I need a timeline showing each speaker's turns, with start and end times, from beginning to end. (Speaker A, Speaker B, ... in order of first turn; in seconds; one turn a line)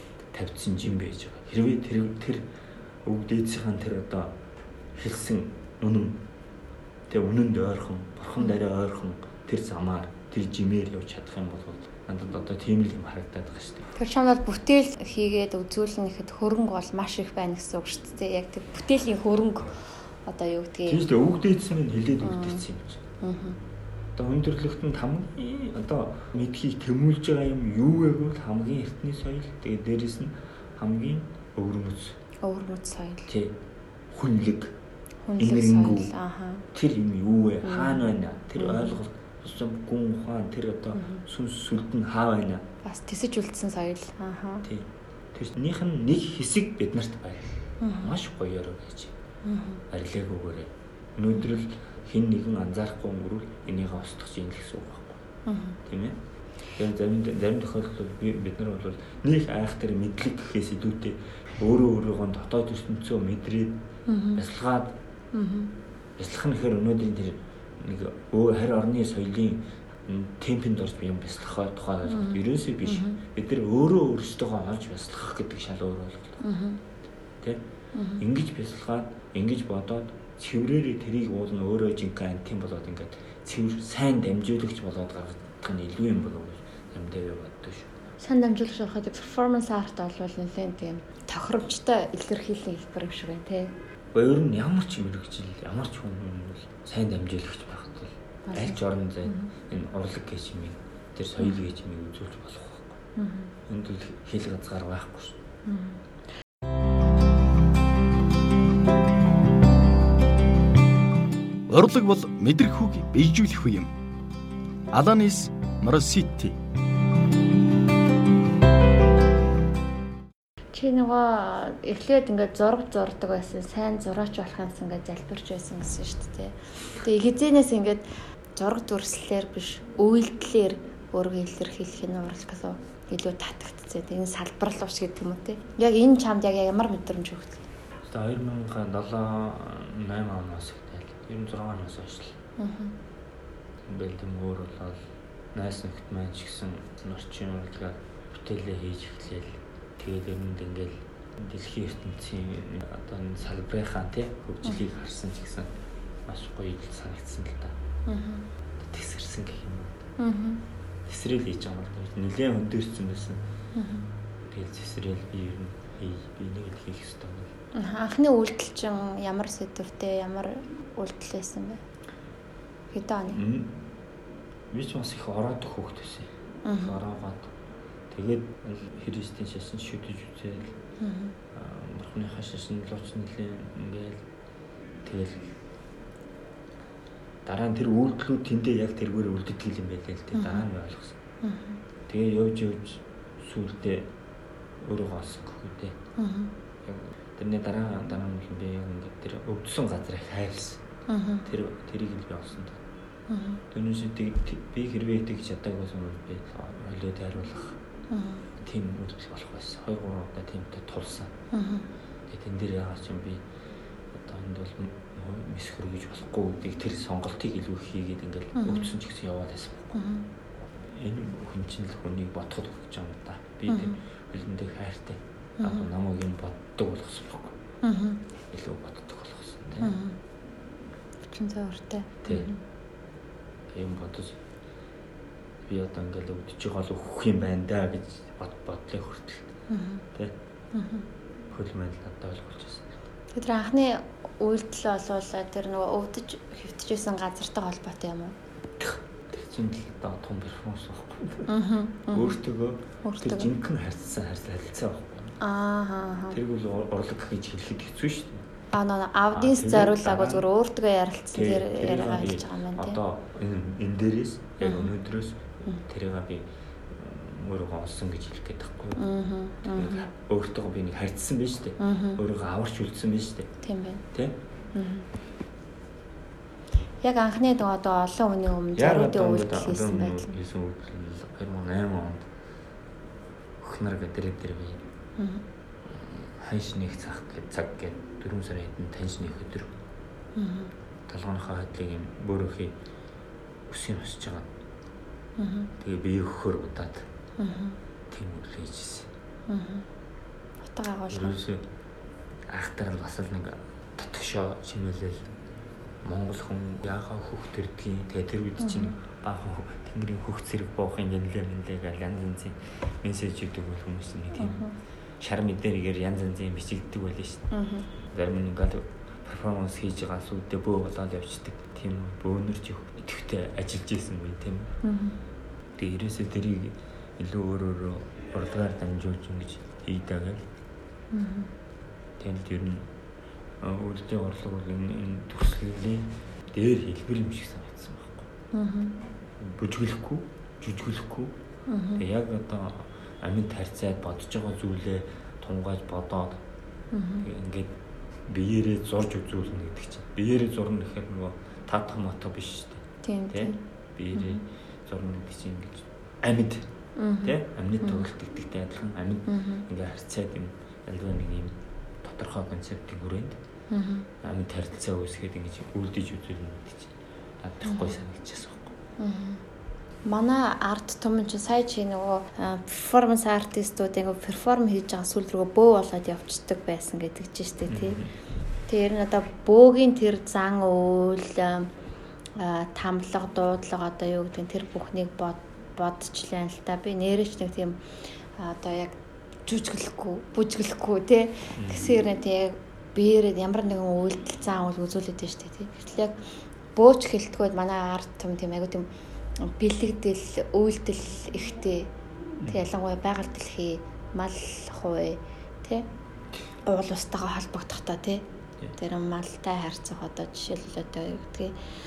Speaker A: 0.3-2.5
Speaker A: 3.0-4.3
Speaker A: 5.0-6.2
Speaker A: 7.1-13.9
Speaker B: 13.9-21.0
Speaker A: 20.9-23.0
Speaker B: 22.2-22.6
Speaker B: 23.2-23.6
Speaker A: 24.1-32.2
Speaker B: 32.4-33.3
Speaker A: 33.3-33.6
Speaker A: 34.1-34.7
Speaker B: 35.2-36.6
Speaker A: 35.4-36.1
Speaker A: 36.7-42.6
Speaker B: 37.6-39.0
Speaker B: 40.9-41.2
Speaker B: 42.8-44.6
Speaker A: 44.6-49.1
Speaker B: 47.8-48.1
Speaker B: 49.4-49.8
Speaker A: 49.9-55.2
Speaker B: 55.5-55.8
Speaker A: 55.9-56.2
Speaker A: 56.8-63.8
Speaker B: 64.1-64.4
Speaker A: 64.3-65.0
Speaker B: 65.3-65.7
Speaker A: 66.2-76.4
Speaker B: 72.1-73.2
Speaker B: 76.4-76.8
Speaker B: 77.9-78.2
Speaker A: 78.2-87.9
Speaker B: 88.2-93.7
Speaker A: 94.1-103.0
Speaker B: 98.5-99.5
Speaker B: 103.2-103.5
Speaker A: 103.7-105.4
Speaker B: 105.7-106.0
Speaker C: 111.7-113.9
Speaker C: 114.9-116.5
Speaker B: 120.7-128.0
Speaker B: 128.6-137.6
Speaker A: 138.0-142.3
Speaker B: 142.6-142.9
Speaker A: 143.9-145.0
Speaker A: 145.5-155.7
Speaker A: 156.3-157.7
Speaker B: 158.1-158.4
Speaker A: 158.8-160.0
Speaker B: 160.2-160.6
Speaker A: 161.1-163.4
Speaker B: 163.7-164.1
Speaker A: 164.4-167.5
Speaker B: 167.7-171.8
Speaker B: 172.9-173.4
Speaker A: 173.3-173.8
Speaker A: 174.7-177.5
Speaker B: 176.6-177.0
Speaker A: 178.1-180.8
Speaker B: 181.0-181.3
Speaker A: 181.5-184.2
Speaker A: 185.0-185.5
Speaker A: 187.4-191.2
Speaker B: 190.3-190.7
Speaker B: 191.4-191.8
Speaker A: 192.1-194.1
Speaker A: 194.8-196.0
Speaker B: 196.2-196.5
Speaker A: 196.8-200.8
Speaker B: 201.1-201.4
Speaker A: 201.4-202.8
Speaker B: 203.3-203.6
Speaker A: 203.7-207.8
Speaker B: 208.1-208.4
Speaker A: 208.6-211.3
Speaker B: 211.5-211.9
Speaker A: 212.3-213.4
Speaker A: 214.1-219.9
Speaker B: 218.6-218.9
Speaker B: 219.9-220.2
Speaker A: 220.8-227.6
Speaker B: 223.7-224.0
Speaker B: 225.6-225.8
Speaker B: 227.8-228.2
Speaker A: 228.5-229.9
Speaker B: 229.8-230.2
Speaker B: 231.3-232.6
Speaker A: 232.2-232.5
Speaker A: 233.7-234.4
Speaker A: 235.7-239.5
Speaker B: 239.7-240.0
Speaker B: 240.7-241.1
Speaker A: 241.5-242.8
Speaker B: 243.3-248.3
Speaker A: 248.8-251.5
Speaker B: 251.5-252.4
Speaker A: 252.1-255.4
Speaker B: 253.0-253.5
Speaker B: 255.4-256.4
Speaker A: 256.3-258.4
Speaker B: 258.7-263.0
Speaker A: 259.3-260.4
Speaker A: 261.3-269.0
Speaker B: 264.6-264.9
Speaker B: 268.9-270.1
Speaker A: 269.7-273.5
Speaker B: 271.8-272.2
Speaker B: 273.6-274.0
Speaker A: 274.1-274.4
Speaker B: 274.7-275.1
Speaker B: 277.0-280.3
Speaker A: 278.7-282.3
Speaker A: 283.6-284.8
Speaker B: 285.2-285.4
Speaker A: 285.9-289.7
Speaker B: 290.4-290.7
Speaker A: 291.1-292.8
Speaker A: 293.7-294.5
Speaker B: 295.4-295.7
Speaker A: 295.8-297.1
Speaker B: 297.4-297.8
Speaker A: 298.1-299.1
Speaker B: 299.5-299.9
Speaker B: 300.6-301.4
Speaker A: 301.1-301.6
Speaker A: 302.5-305.3
Speaker A: 306.0-314.6
Speaker B: 308.6-308.9
Speaker B: 314.4-314.7
Speaker A: 315.2-317.5
Speaker B: 317.5-317.9
Speaker A: 318.1-324.7
Speaker B: 324.8-325.1
Speaker A: 325.8-330.4
Speaker B: 331.1-331.5
Speaker A: 332.2-332.9
Speaker A: 333.6-338.3
Speaker B: 338.5-338.9
Speaker A: 339.4-341.3
Speaker B: 341.7-342.0
Speaker A: 341.9-346.4
Speaker B: 346.9-347.2
Speaker A: 347.2-347.7
Speaker A: 348.3-356.7
Speaker B: 353.0-353.6
Speaker B: 354.1-354.4
Speaker B: 357.0-358.0
Speaker A: 357.2-363.4
Speaker B: 359.3-359.6
Speaker B: 363.7-364.1
Speaker A: 364.2-368.7
Speaker B: 367.6-368.0
Speaker B: 369.0-369.4
Speaker B: 370.0-378.0
Speaker A: 377.7-378.1
Speaker B: 378.7-381.7
Speaker B: 382.4-387.8
Speaker B: 388.4-388.9
Speaker B: 389.4-396.1
Speaker A: 391.6-392.0
Speaker B: 396.8-398.9
Speaker B: 399.4-401.9
Speaker B: 402.4-405.9
Speaker B: 406.7-408.2
Speaker B: 408.8-411.5